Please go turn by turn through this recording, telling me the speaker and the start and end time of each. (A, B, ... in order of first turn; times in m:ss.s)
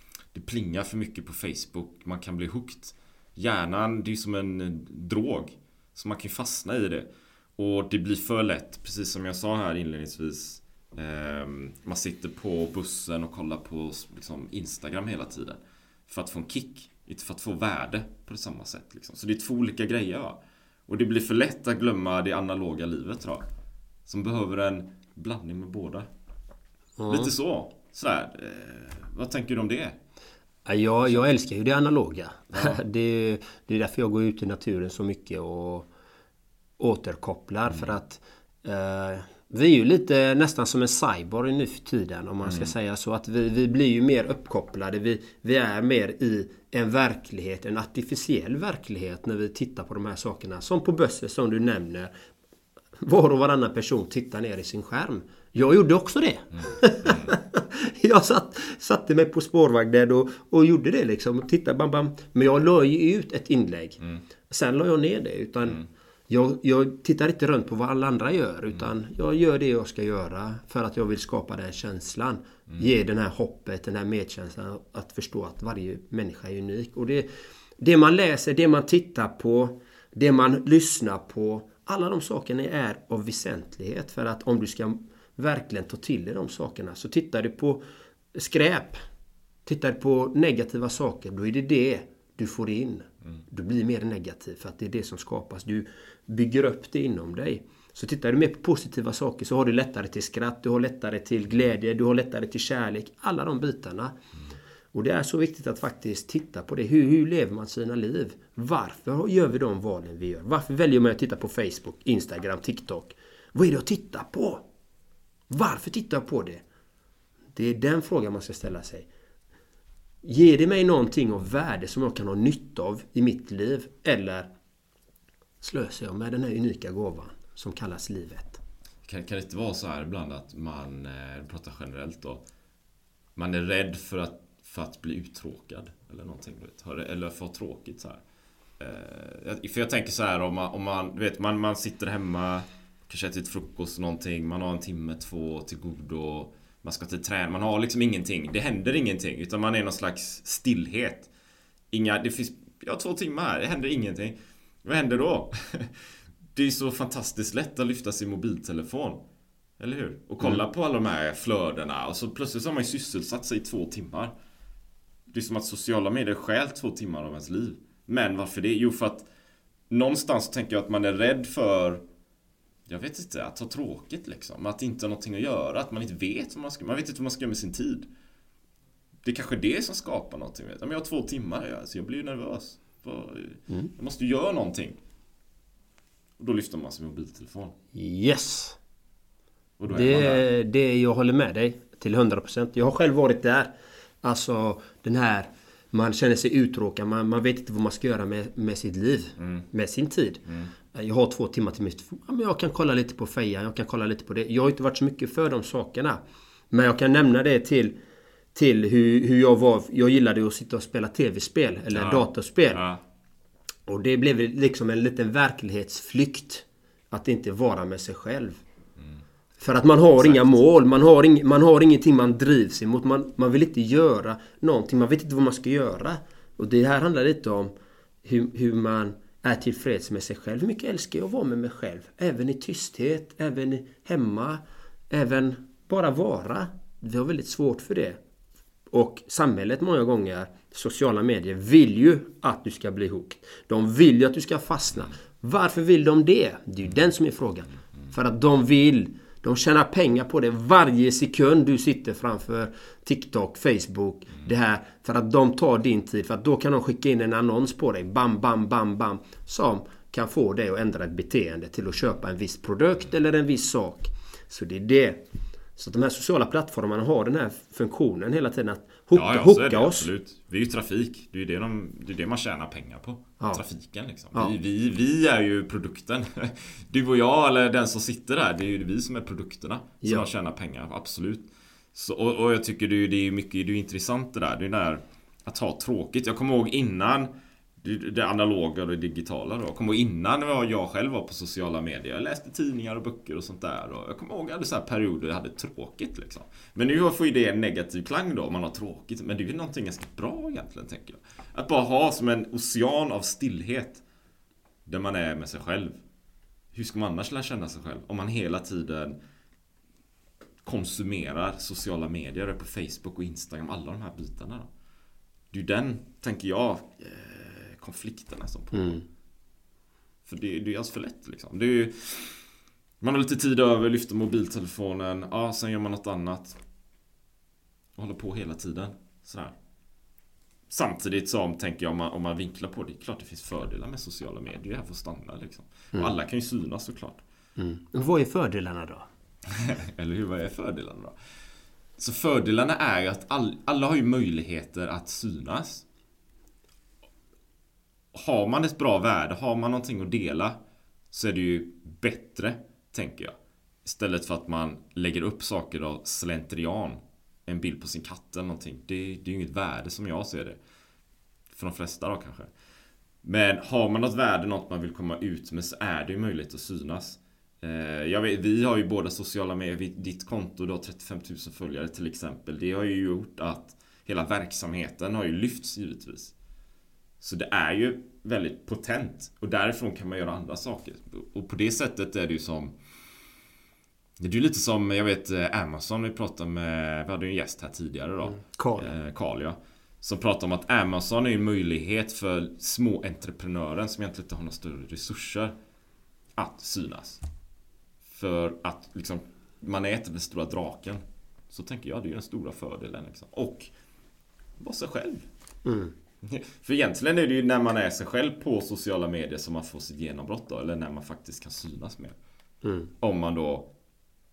0:00.3-0:23.4 A
0:24.1-0:26.1 A
0:27.0-0:27.3 B
0:27.1-0:30.0 A
0:30.7-0:35.9 B
0:32.5-0:32.8 A
0:36.8-0:52.1 B
0:42.4-0:42.7 A
0:53.0-1:17.3 B
0:57.0-0:57.4 A
1:17.8-1:29.0 B
1:29.7-1:44.2 B
1:44.9-1:54.6 B
1:55.5-1:56.6 B
1:57.6-1:59.1 B
2:00.2-2:04.5 B
2:05.6-2:08.6 B
2:09.0-2:12.4 A
2:13.4-2:18.2 A
2:18.8-2:31.3 A
2:31.9-2:39.2 A
2:39.8-2:44.3 A
2:45.3-2:49.3 A
2:49.9-2:52.0 A
2:52.9-2:58.1 A
2:59.2-3:05.0 A
3:06.4-3:07.8 A
3:07.9-3:08.8 B
3:09.8-3:10.4 A
3:09.9-3:13.7 B
3:14.2-3:28.0 B
3:19.4-3:19.7 A
3:20.5-3:20.7 A
3:28.6-3:32.8 B
3:31.9-3:33.0 A
3:33.9-3:38.6 B
3:39.6-3:47.7 B
3:40.2-3:40.6 A
3:48.2-3:58.2 B
3:58.9-4:25.2 B
4:25.8-4:30.1 B
4:29.1-4:47.3 A
4:40.0-4:40.3 B
4:47.8-5:04.0 A
5:04.9-5:06.0 A
5:06.7-5:09.2 A
5:10.6-5:14.7 A
5:15.5-5:19.0 A
5:18.7-5:19.0 B
5:20.3-5:22.4 A
5:23.0-5:26.6 A
5:28.0-5:29.6 A
5:30.7-5:37.2 A
5:37.6-5:39.1 B
5:39.6-5:41.2 A
5:42.0-5:45.8 A
5:48.1-5:50.6 A
5:51.1-6:00.6 A
6:01.5-6:02.5 A
6:03.2-6:16.3 A
6:17.2-6:22.8 A
6:24.2-6:35.5 A
6:28.3-6:28.9 B
6:36.4-6:37.2 A
6:38.1-6:43.7 A
6:44.6-6:45.3 A
6:45.6-6:45.9 B
6:46.2-6:52.2 A
6:52.6-6:52.9 B
6:53.0-6:53.7 A